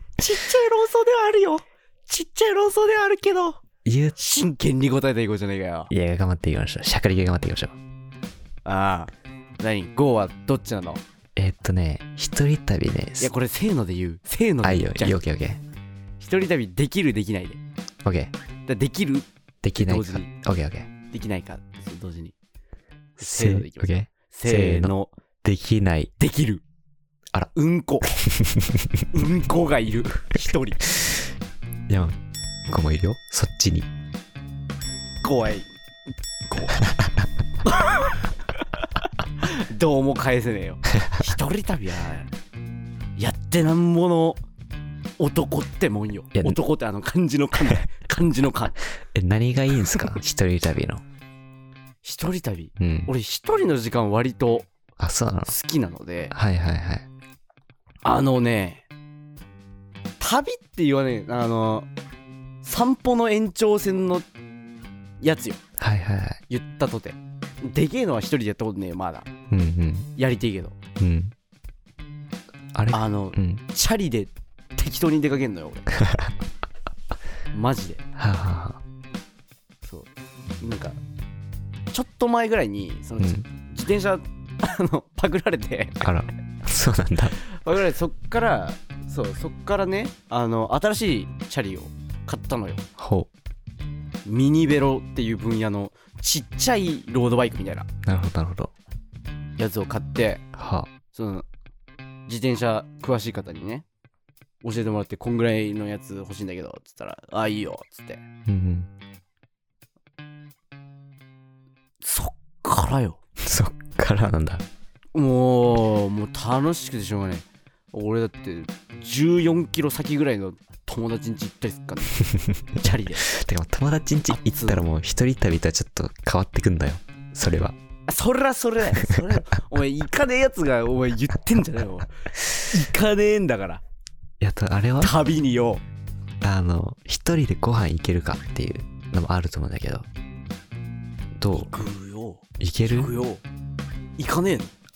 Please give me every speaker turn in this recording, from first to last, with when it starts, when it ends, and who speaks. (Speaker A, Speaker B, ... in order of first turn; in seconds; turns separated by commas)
Speaker A: 0.2-3.6, Speaker B: 3.9-4.2, Speaker A: 4.2-5.9, Speaker B: 5.9-7.8, Speaker A: 8.7-11.0, Speaker B: 11.4-13.3, Speaker A: 13.2-15.2, Speaker B: 14.6-15.6, Speaker A: 16.2-17.6, Speaker B: 18.1-18.3, Speaker A: 18.7-20.3, Speaker B: 19.6-20.9, Speaker A: 21.1-22.3, Speaker A: 23.2-25.1, Speaker B: 23.2-26.1, Speaker A: 26.2-26.6, Speaker A: 27.6-28.2, Speaker B: 28.0-29.1, Speaker A: 29.1-30.9, Speaker B: 31.9-32.1, Speaker B: 32.7-33.9, Speaker A: 35.2-35.7, Speaker A: 36.5-36.8, Speaker B: 36.8-37.1, Speaker A: 37.6-38.2, Speaker A: 39.4-42.3, Speaker A: 43.2-44.4, Speaker A: 45.2-48.8, Speaker B: 49.0-51.0, Speaker A: 52.0-54.7, Speaker B: 52.8-53.1, Speaker B: 55.0-55.5, Speaker A: 55.5-56.3, Speaker B: 56.3-57.1, Speaker A: 58.0-58.9, Speaker A: 60.2-61.9, Speaker A: 62.6-64.3, Speaker A: 65.2-65.6, Speaker B: 65.8-66.4, Speaker A: 66.5-69.3, Speaker B: 69.5-70.1, Speaker A: 70.2-70.8, Speaker B: 71.0-71.3, Speaker B: 72.8-73.6, Speaker A: 72.9-75.9, Speaker B: 76.0-76.3, Speaker A: 77.5-78.0, Speaker B: 78.2-78.8, Speaker A: 79.8-80.1, Speaker A: 80.6-81.0, Speaker A: 81.9-86.1, Speaker B: 83.2-83.5, Speaker B: 86.0-87.4, Speaker A: 87.5-92.8, Speaker B: 93.0-93.3, Speaker A: 94.2-97.9, Speaker B: 98.0-98.7, Speaker A: 99.6-100.4, Speaker B: 100.5-100.9, Speaker A: 101.1-101.5, Speaker A: 102.3-103.8, Speaker A: 104.6-108.2, Speaker B: 108.5-108.9, Speaker A: 112.0-113.2, Speaker B: 113.4-114.7, Speaker A: 115.2-122.2, Speaker B: 122.3-127.8, Speaker A: 122.8-123.3, Speaker A: 124.3-124.8, Speaker A: 128.1-132.1, Speaker A: 132.7-133.8, Speaker B: 134.4-135.1, Speaker A: 135.0-135.8, Speaker B: 136.4-140.1, Speaker B: 141.4-141.8, Speaker A: 141.6-143.4, Speaker B: 142.6-143.1, Speaker A: 144.2-144.7